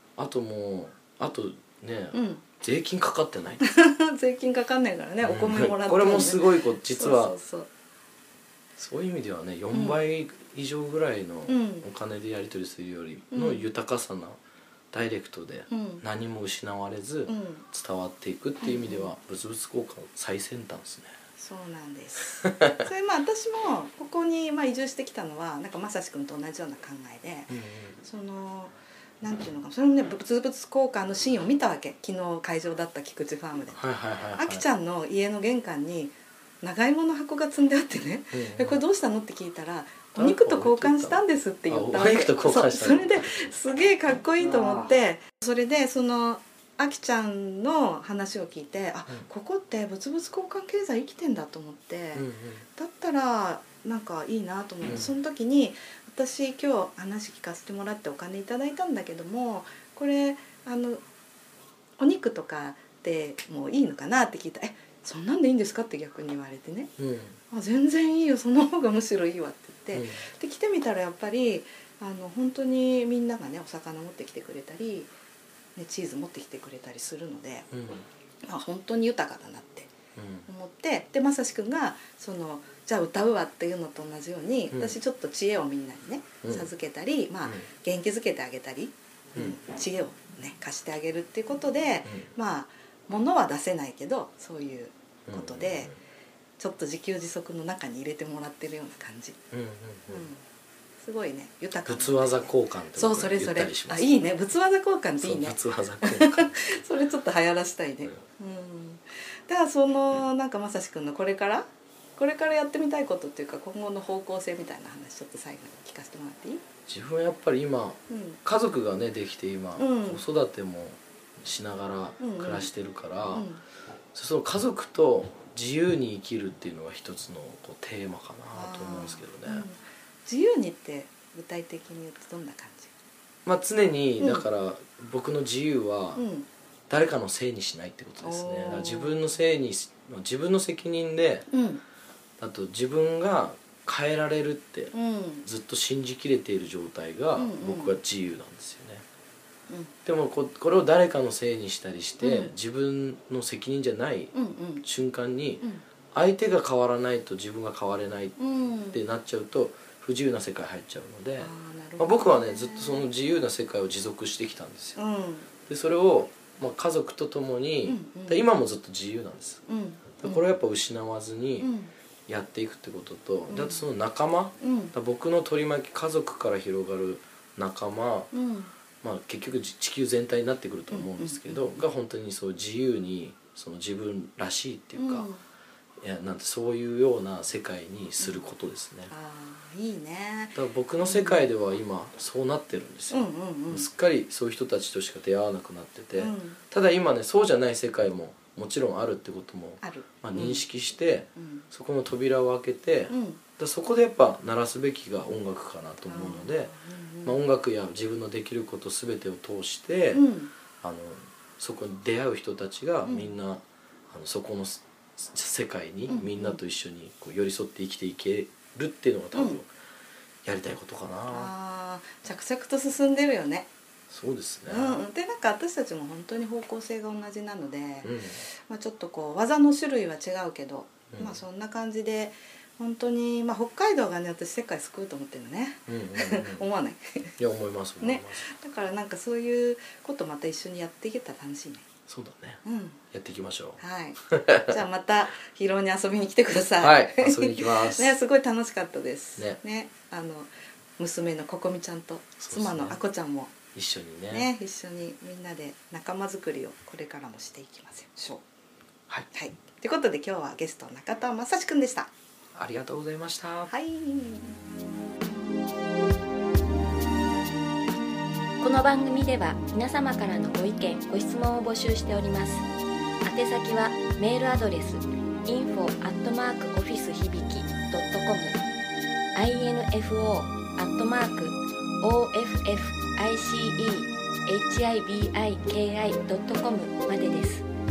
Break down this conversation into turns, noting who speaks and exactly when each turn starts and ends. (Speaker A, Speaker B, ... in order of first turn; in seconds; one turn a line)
Speaker A: 0.2-3.6
Speaker B: 2.1-2.4
Speaker B: 3.6-6.5
Speaker A: 5.2-7.3
Speaker B: 7.0-7.7
Speaker A: 8.8-14.4
Speaker B: 9.7-10.0
Speaker B: 11.5-11.9
Speaker B: 13.3-13.6
Speaker A: 14.9-21.1
Speaker B: 15.7-16.0
Speaker B: 17.3-17.6
Speaker B: 18.6-19.1
Speaker B: 21.4-33.8
Speaker A: 22.4-22.8
Speaker A: 27.5-28.0
Speaker A: 33.7-34.6
Speaker B: 34.3-61.0
Speaker A: 38.3-38.8
Speaker A: 40.1-43.2
Speaker A: 52.1-52.6
Speaker A: 54.9-55.1
Speaker B: 62.0-66.9
Speaker A: 67.0-67.4
Speaker B: 67.5-75.1
Speaker A: 69.9-70.2
Speaker B: 75.8-77.7
Speaker A: 77.7-78.0
Speaker B: 78.5-79.9
Speaker A: 80.2-80.5
Speaker B: 80.5-95.9
Speaker A: 86.4-86.7
Speaker A: 95.3-96.0
Speaker B: 96.6-99.4
Speaker A: 99.5-100.3
Speaker B: 100.1-100.4
Speaker B: 101.0-116.6
Speaker A: 101.9-104.3
Speaker A: 105.2-106.7
Speaker A: 116.9-123.5
Speaker B: 118.1-118.4
Speaker B: 119.8-120.2
Speaker B: 122.2-122.7
Speaker B: 123.3-123.6
Speaker A: 124.1-129.7
Speaker B: 128.5-132.9
Speaker A: 133.4-136.2
Speaker B: 134.2-134.4
Speaker B: 136.2-136.5
Speaker A: 136.9-141.5
Speaker B: 138.2-139.2
Speaker B: 141.5-141.8
Speaker A: 142.4-149.1
Speaker B: 144.9-145.4
Speaker B: 147.4-147.9
Speaker A: 150.1-158.4
Speaker B: 152.2-152.5
Speaker B: 154.3-154.8
Speaker B: 158.4-159.0
Speaker A: 158.9-165.0
Speaker B: 161.4-163.1
Speaker B: 165.0-165.5
Speaker A: 165.7-169.6
Speaker B: 167.9-168.5
Speaker B: 169.7-170.4
Speaker A: 170.2-171.7
Speaker B: 171.6-171.9
Speaker A: 172.3-178.3
Speaker B: 173.5-173.8
Speaker B: 174.6-174.9
Speaker B: 178.3-178.7
Speaker A: 179.0-185.3
Speaker B: 180.9-181.8
Speaker B: 185.0-185.4
Speaker A: 186.0-189.1
Speaker B: 189.1-191.5
Speaker A: 190.6-206.7
Speaker B: 193.1-193.9
Speaker B: 196.2-196.6
Speaker B: 199.8-200.6
Speaker B: 201.4-201.7
Speaker B: 203.1-203.4
Speaker B: 206.1-207.4
Speaker A: 207.2-210.2
Speaker B: 210.1-210.5
Speaker A: 210.8-219.7
Speaker B: 213.1-213.3
Speaker B: 216.1-216.6
Speaker B: 219.3-219.6
Speaker A: 220.4-221.5
Speaker B: 221.3-223.7
Speaker A: 224.1-225.0
Speaker B: 224.7-237.3
Speaker A: 228.0-228.4
Speaker A: 231.1-231.4
Speaker A: 235.9-236.7
Speaker A: 237.4-238.5
Speaker B: 238.0-241.9
Speaker A: 242.1-244.7
Speaker B: 242.6-243.0
Speaker B: 243.8-253.5
Speaker A: 246.8-248.2
Speaker A: 252.4-253.0
Speaker A: 253.7-254.5
Speaker B: 254.3-258.4
Speaker B: 259.3-262.1
Speaker A: 262.6-263.7
Speaker B: 263.7-264.6
Speaker C: 268.6-272.7
Speaker C: 273.2-278.6
Speaker C: 279.4-287.7